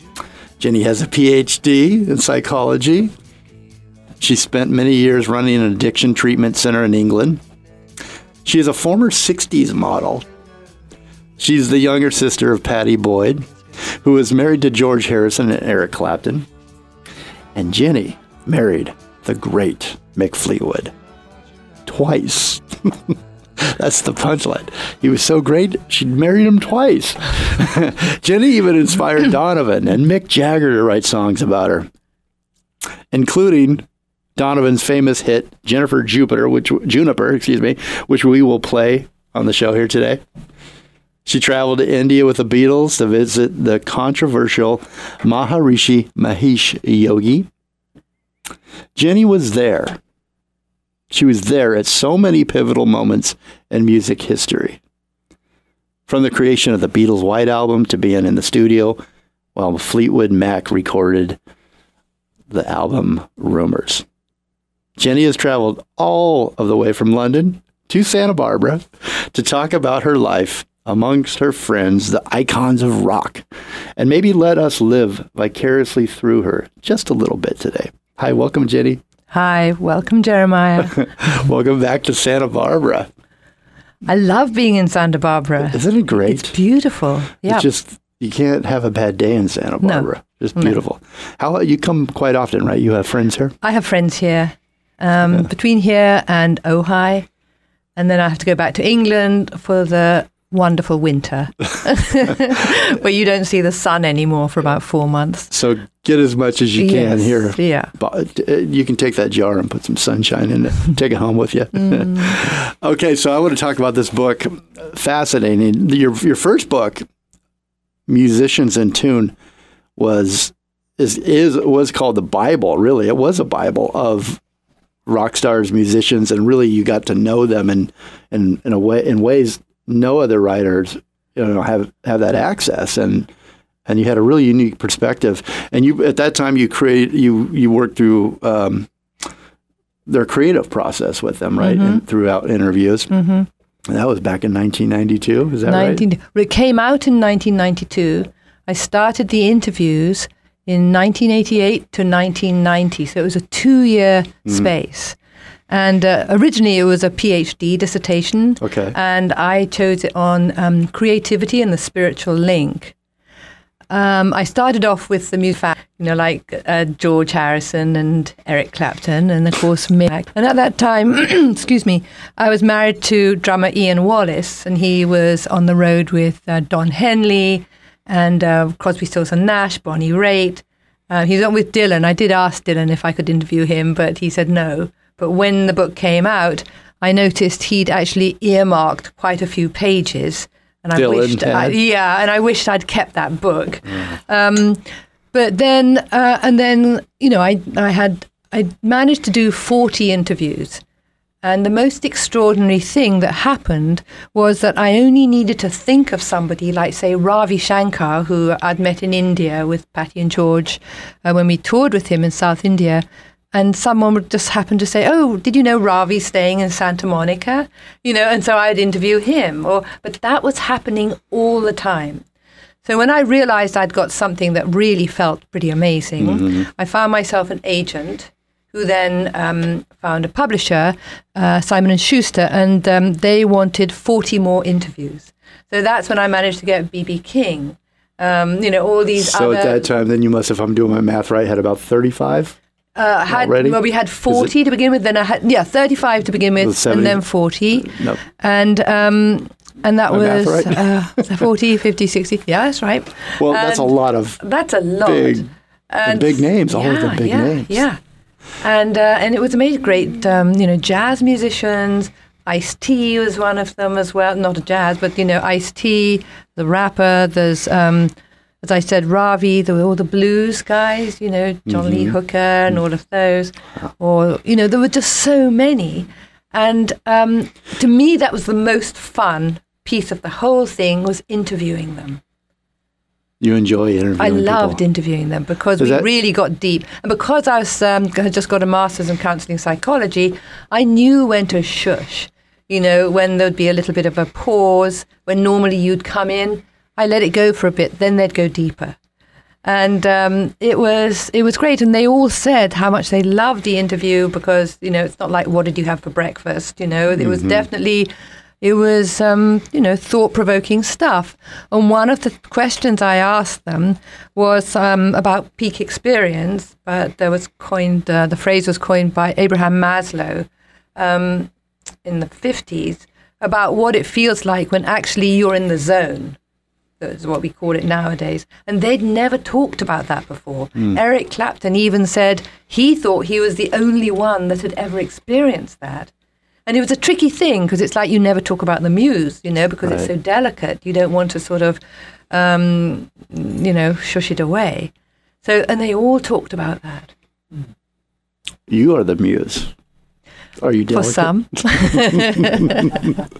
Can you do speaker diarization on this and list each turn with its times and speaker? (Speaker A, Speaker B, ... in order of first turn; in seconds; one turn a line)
Speaker A: 0.6-3.1
Speaker A: 4.2-7.4
Speaker A: 8.4-10.2
Speaker A: 11.4-16.5
Speaker A: 17.5-20.9
Speaker A: 21.9-31.9
Speaker A: 33.1-40.2
Speaker A: 41.2-47.5
Speaker A: 48.9-50.0
Speaker A: 51.1-54.8
Speaker A: 56.1-59.0
Speaker A: 59.5-61.4
Speaker A: 62.5-64.0
Speaker A: 65.0-73.5
Speaker A: 74.0-79.0
Speaker B: 79.3-81.0
Speaker A: 80.9-83.1
Speaker B: 84.0-87.7
Speaker A: 85.6-86.5
Speaker A: 87.4-93.5
Speaker B: 89.8-90.8
Speaker B: 93.6-97.3
Speaker B: 98.0-105.5
Speaker A: 105.5-117.0
Speaker B: 106.8-107.9
Speaker B: 111.8-112.3
Speaker A: 118.1-119.3
Speaker A: 120.0-124.4
Speaker A: 125.0-133.3
Speaker A: 133.8-138.9
Speaker A: 140.1-143.1
Speaker B: 141.6-142.0
Speaker B: 143.1-143.5
Speaker A: 143.8-146.0
Speaker B: 145.7-155.2
Speaker B: 155.7-162.9
Speaker A: 158.6-158.9
Speaker B: 163.9-200.8
Speaker A: 190.9-191.8
Speaker B: 201.4-222.2
Speaker B: 222.8-239.8
Speaker A: 226.2-226.7
Speaker A: 239.2-242.6
Speaker B: 242.9-258.0
Speaker A: 243.3-244.5
Speaker A: 246.6-248.2
Speaker A: 250.1-250.9
Speaker A: 253.4-254.4
Speaker A: 255.0-255.5
Speaker A: 256.0-257.8
Speaker B: 258.6-282.2
Speaker A: 271.7-272.1
Speaker A: 283.4-284.8
Speaker B: 284.2-298.9
Speaker A: 285.8-286.1
Speaker B: 299.6-308.1
Speaker A: 307.1-307.6
Speaker B: 308.6-321.5
Speaker B: 322.0-326.4
Speaker B: 327.0-336.1
Speaker B: 336.6-341.8
Speaker A: 339.8-340.1
Speaker B: 342.3-344.9
Speaker B: 345.4-347.1
Speaker A: 348.7-349.7
Speaker A: 350.6-353.1
Speaker B: 350.9-352.9